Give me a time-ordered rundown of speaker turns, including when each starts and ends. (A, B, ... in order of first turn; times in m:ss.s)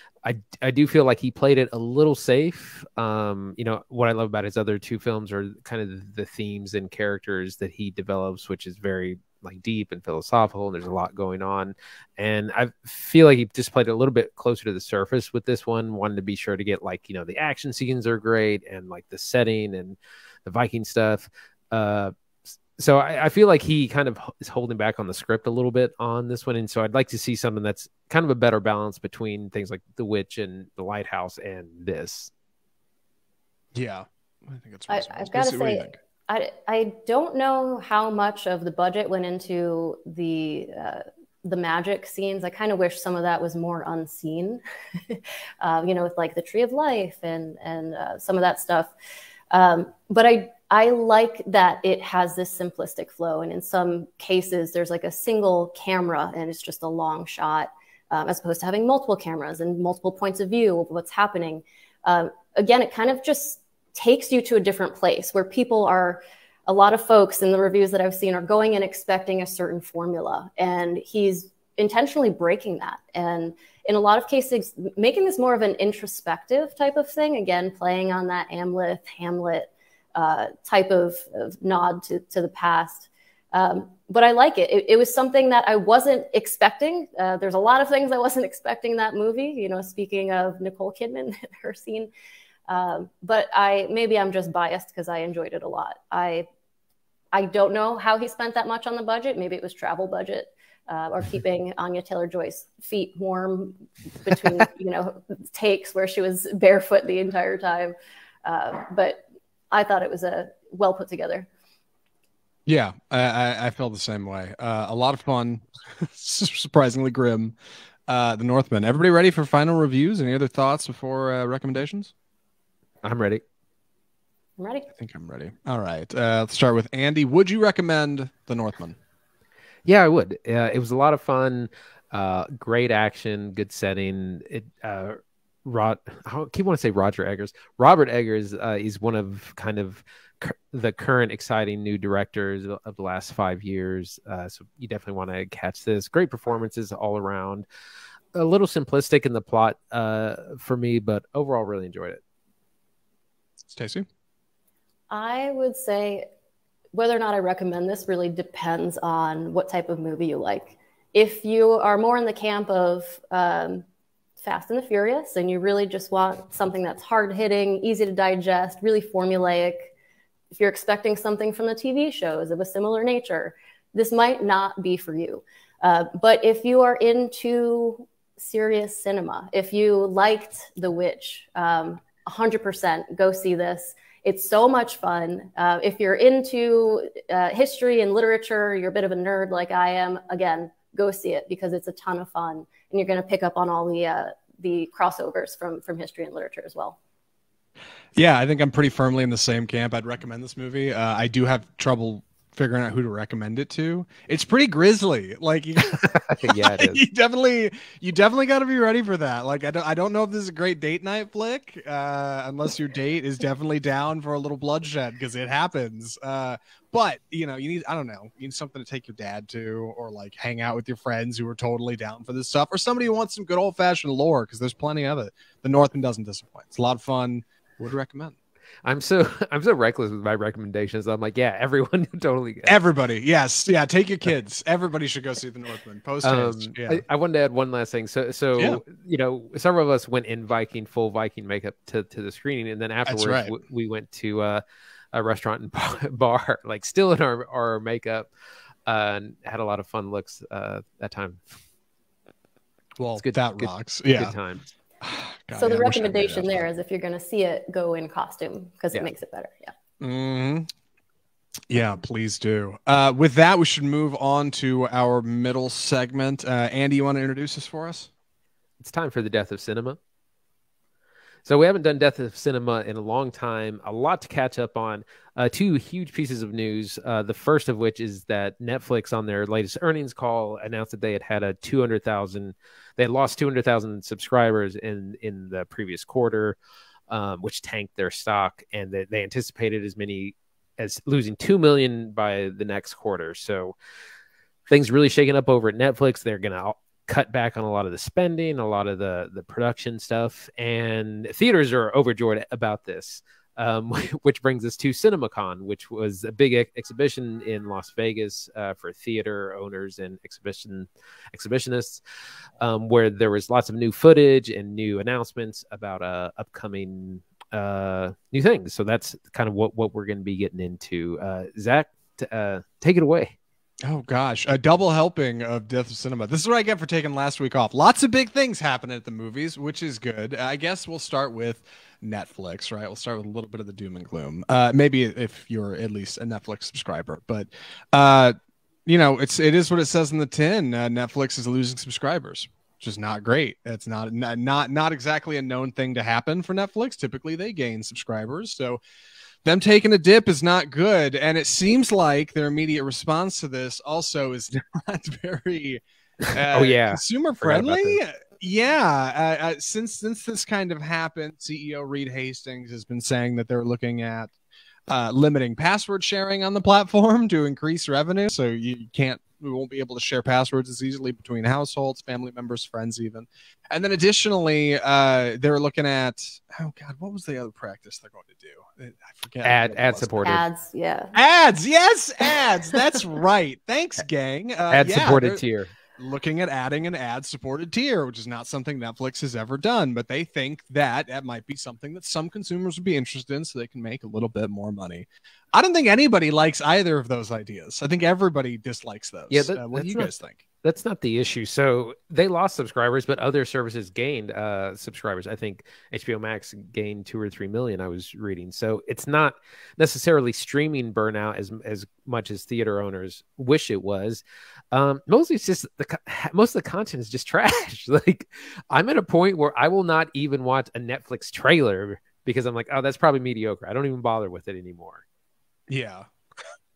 0:00.2-0:22.1 A
0:22.8-0:32.3 A
0:33.7-0:36.0 B
0:34.9-0:48.9 C
0:49.5-1:32.1 C
1:32.7-1:36.5 C
1:37.3-1:51.5 C
1:52.7-1:57.5 B
1:58.1-2:02.1 B
2:03.0-2:03.4 A
2:04.6-2:04.9 C
2:05.0-2:09.0 B
2:09.9-2:27.7 A
2:28.3-2:32.2 A
2:33.7-2:34.1 B
2:35.1-2:36.3 C
2:36.9-2:43.8 C
2:44.4-2:49.9 C
2:50.5-3:17.0 C
3:18.2-3:48.4 B
3:26.0-3:27.0 A
3:48.8-3:52.8 A
3:52.7-3:57.0 B
3:56.2-4:04.6 A
4:03.1-4:03.6 B
4:05.1-4:08.3 A
4:08.9-4:11.4 A
4:13.0-4:14.4 B
4:13.2-4:14.6 A
4:15.0-4:16.7 B
4:15.6-4:19.7 C
4:20.0-4:20.7 B
4:21.7-4:28.1 B
4:28.8-4:30.0 A
4:31.4-4:46.6 A
4:47.1-4:53.8 A
4:54.7-5:12.0 A
5:12.6-5:23.4 A
5:23.8-5:38.4 B
5:38.9-5:48.8 B
5:49.4-6:04.3 B
5:56.5-5:58.0 A
6:04.9-6:20.4 B
6:19.4-6:20.4 A
6:20.2-6:21.1 C
6:21.1-6:25.4 B
6:24.7-6:25.7 A
6:26.0-6:40.4 B
6:39.3-6:40.1 A
6:40.6-7:05.0 A
7:05.7-7:06.1 B